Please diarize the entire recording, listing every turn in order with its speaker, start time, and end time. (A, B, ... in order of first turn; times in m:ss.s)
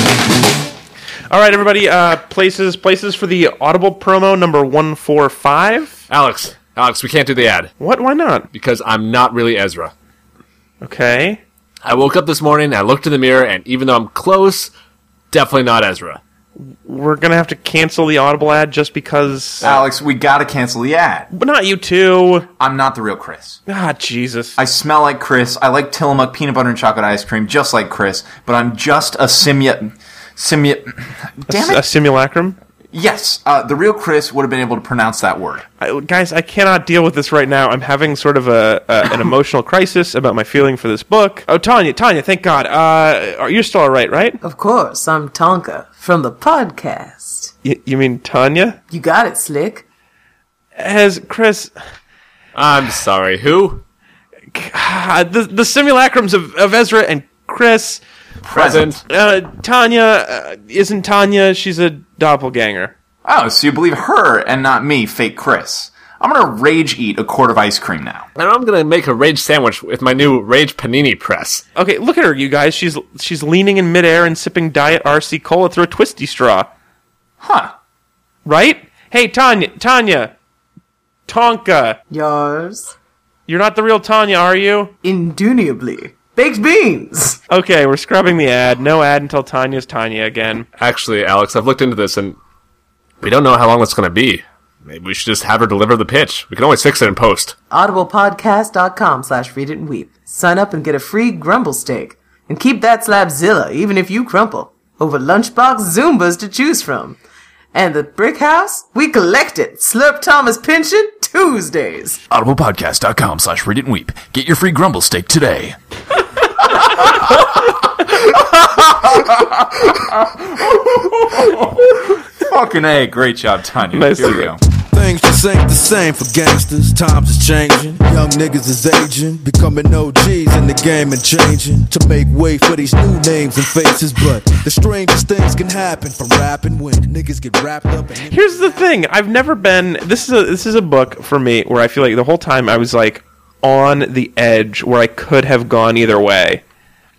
0:01.3-0:06.0 A
0:06.1-0:07.7 B
0:07.8-0:08.5 A
0:08.5-0:09.9 B
0:10.8-0:11.4 A
0:11.8-0:14.7 B
0:15.3-0:16.2 B
0:16.7-0:19.8 A
0:19.6-0:21.3 C
0:21.3-0:22.5 A
0:22.6-0:23.6 C
0:23.7-0:24.6 A
0:24.6-0:31.8 C
0:31.5-0:32.6 A
0:32.9-0:35.7 C
0:35.8-0:44.4 A
0:44.4-0:47.5 D
0:47.6-0:48.8 A
0:48.9-0:49.8 D
0:50.8-0:51.7 A
0:52.6-0:53.8 B
0:54.5-0:58.0 A
0:58.4-0:59.0 C
0:58.5-0:59.0 B
0:59.1-1:02.9 A
1:03.2-1:08.3 C
1:08.4-1:11.6 B
1:11.8-1:16.7 A
1:17.4-1:17.7 C
1:18.4-1:20.3 A
1:21.3-1:22.0 A
1:22.1-1:22.9 D
1:23.5-1:24.9 A
1:25.0-1:27.4 D
1:27.5-1:30.7 A
1:30.8-1:32.4 B
1:33.2-1:37.6 B
1:37.7-1:47.2 D
1:47.7-1:52.2 D
1:52.3-1:55.8 C
1:56.5-2:04.6 C
2:03.9-2:04.5 A
2:05.0-2:18.1 E
2:18.2-2:26.6 A